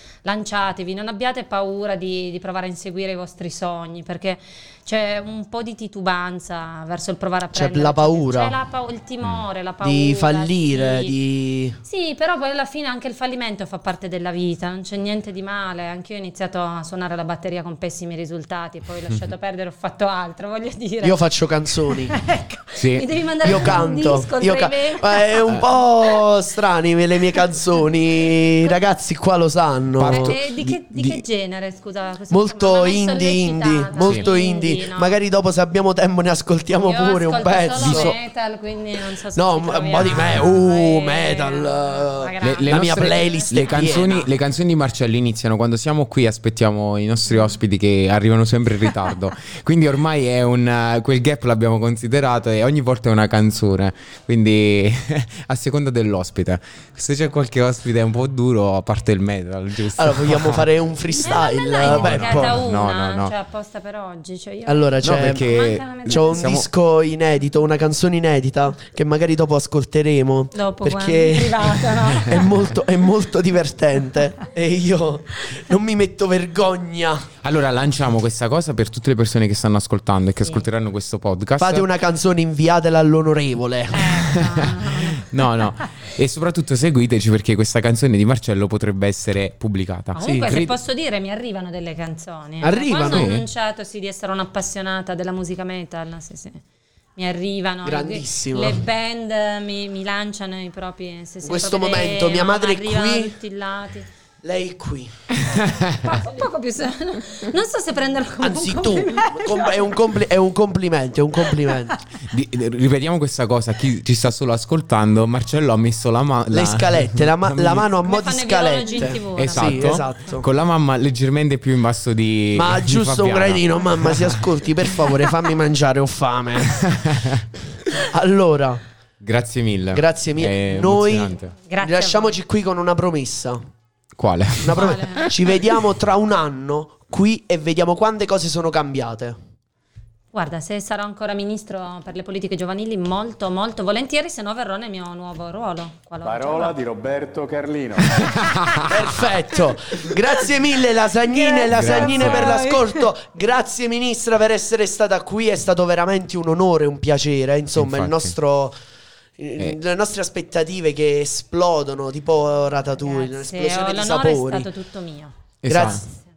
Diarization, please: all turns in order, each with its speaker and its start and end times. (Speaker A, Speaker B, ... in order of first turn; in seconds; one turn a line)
Speaker A: 0.2-11.2
Speaker B: 7.5-8.5
Speaker B: 9.8-11.8
Speaker A: 11.8-21.2
Speaker B: 21.0-22.1
Speaker A: 21.9-26.2
Speaker C: 22.8-23.8
Speaker B: 23.4-30.4
Speaker C: 30.0-30.7
Speaker A: 30.0-35.2
Speaker B: 32.3-38.1
Speaker A: 36.8-43.9
Speaker C: 37.8-38.1
Speaker B: 39.3-44.3
Speaker C: 42.4-60.7
Speaker A: 47.3-47.5
Speaker B: 60.0-62.6
Speaker A: 61.2-66.5
Speaker C: 61.8-63.3
Speaker B: 64.7-65.5
Speaker C: 65.0-66.7
Speaker B: 66.0-77.2
Speaker A: 70.5-72.5
Speaker C: 77.4-81.9
Speaker B: 81.6-84.0
Speaker A: 83.9-85.8
Speaker C: 85.2-90.8
Speaker A: 90.1-96.6
Speaker B: 90.2-90.5
Speaker B: 92.6-93.3
Speaker C: 93.1-93.4
Speaker A: 97.2-104.0
Speaker B: 97.8-98.8
Speaker B: 101.4-103.3
Speaker B: 104.4-105.1
Speaker A: 105.8-110.0
Speaker B: 108.4-112.0
Speaker C: 112.3-117.8
Speaker B: 116.5-120.4
Speaker A: 118.0-120.4
Speaker C: 119.3-124.5
Speaker B: 122.5-127.0
Speaker C: 126.7-127.4
Speaker B: 128.0-128.8
Speaker C: 129.2-131.5
Speaker B: 129.9-133.6
Speaker A: 131.7-132.4
Speaker C: 134.2-135.1
Speaker B: 134.6-139.3
Speaker A: 134.8-135.3
Speaker A: 140.3-146.8
Speaker D: 146.3-148.2
Speaker C: 148.2-148.8
Speaker B: 148.8-158.7
Speaker A: 151.2-153.1
Speaker C: 151.7-152.6
Speaker C: 157.7-158.3
Speaker B: 159.4-164.7
Speaker A: 162.9-166.1
Speaker C: 165.6-166.0
Speaker B: 165.7-166.0